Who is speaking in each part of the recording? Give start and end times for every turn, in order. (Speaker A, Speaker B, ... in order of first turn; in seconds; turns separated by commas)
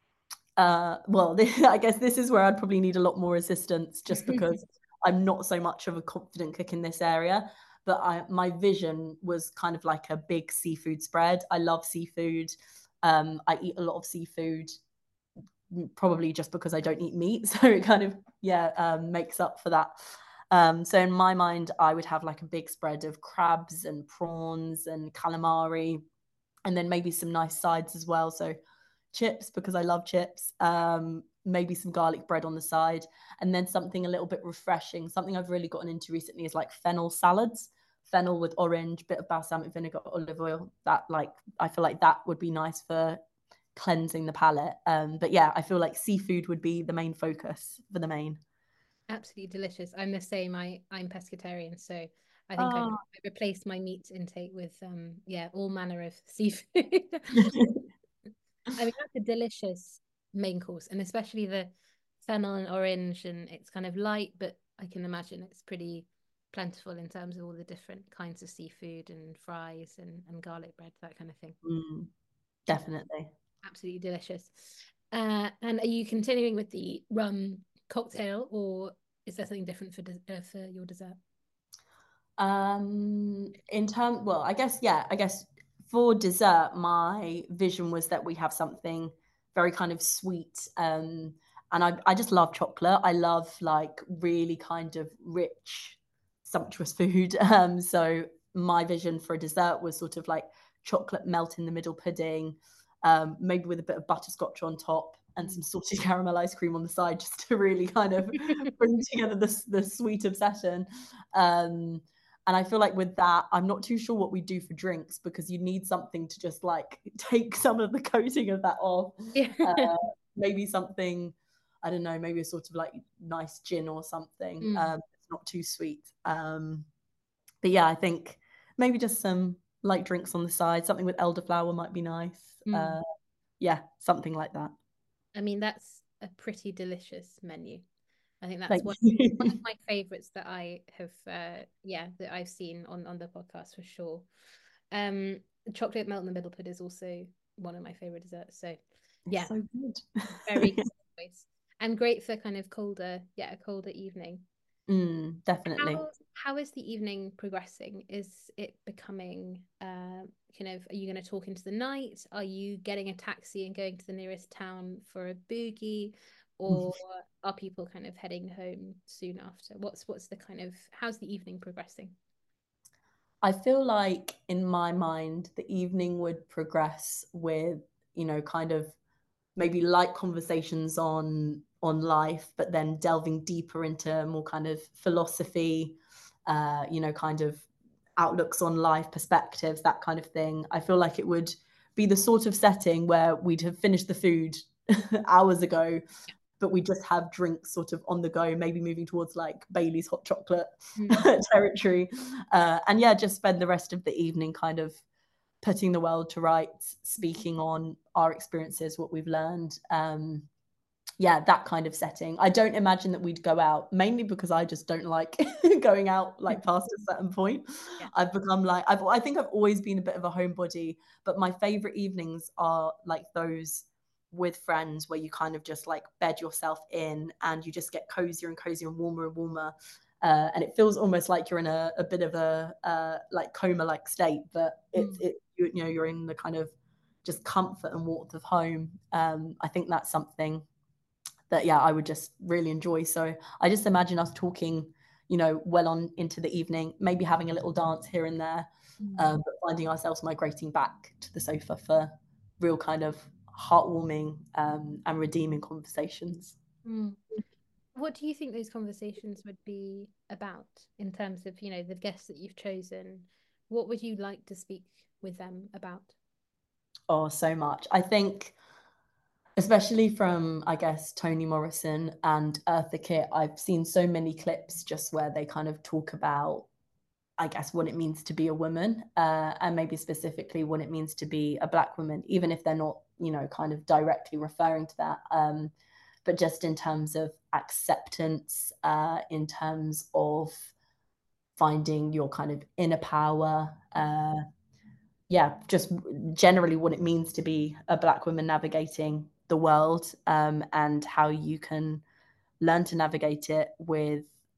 Speaker A: 0.6-14.7, Speaker B: 4.1-4.4, Speaker A: 15.7-19.9, Speaker A: 20.5-26.0, Speaker A: 26.6-28.6, Speaker A: 29.1-43.2, Speaker A: 43.7-48.4, Speaker B: 49.1-57.5, Speaker A: 52.6-53.0, Speaker A: 57.5-57.8, Speaker B: 58.7-61.7, Speaker B: 62.2-71.6, Speaker A: 71.6-72.1, Speaker A: 72.7-73.3, Speaker B: 73.6-81.2, Speaker A: 82.4-126.9, Speaker B: 119.3-119.9, Speaker B: 124.6-124.9, Speaker A: 127.6-133.0, Speaker B: 132.7-133.0, Speaker A: 133.6-134.7, Speaker B: 135.3-137.8, Speaker B: 138.4-144.3, Speaker A: 138.7-139.6, Speaker B: 144.9-148.8, Speaker A: 149.3-150.9, Speaker B: 150.4-154.4, Speaker A: 154.9-156.0, Speaker B: 155.7-172.1, Speaker A: 173.4-178.9, Speaker A: 179.6-185.9, Speaker A: 186.5-196.0, Speaker A: 196.6-205.0, Speaker B: 200.9-201.2, Speaker A: 205.6-210.5, Speaker A: 211.2-236.7, Speaker B: 234.9-235.2, Speaker A: 237.2-240.7, Speaker A: 241.5-256.6, Speaker B: 249.0-249.3, Speaker B: 256.8-257.2, Speaker B: 257.9-266.1, Speaker A: 267.1-268.6, Speaker A: 269.6-276.7, Speaker A: 277.4-285.7, Speaker A: 286.2-290.7, Speaker A: 291.6-294.4, Speaker A: 295.3-302.0, Speaker A: 302.6-304.3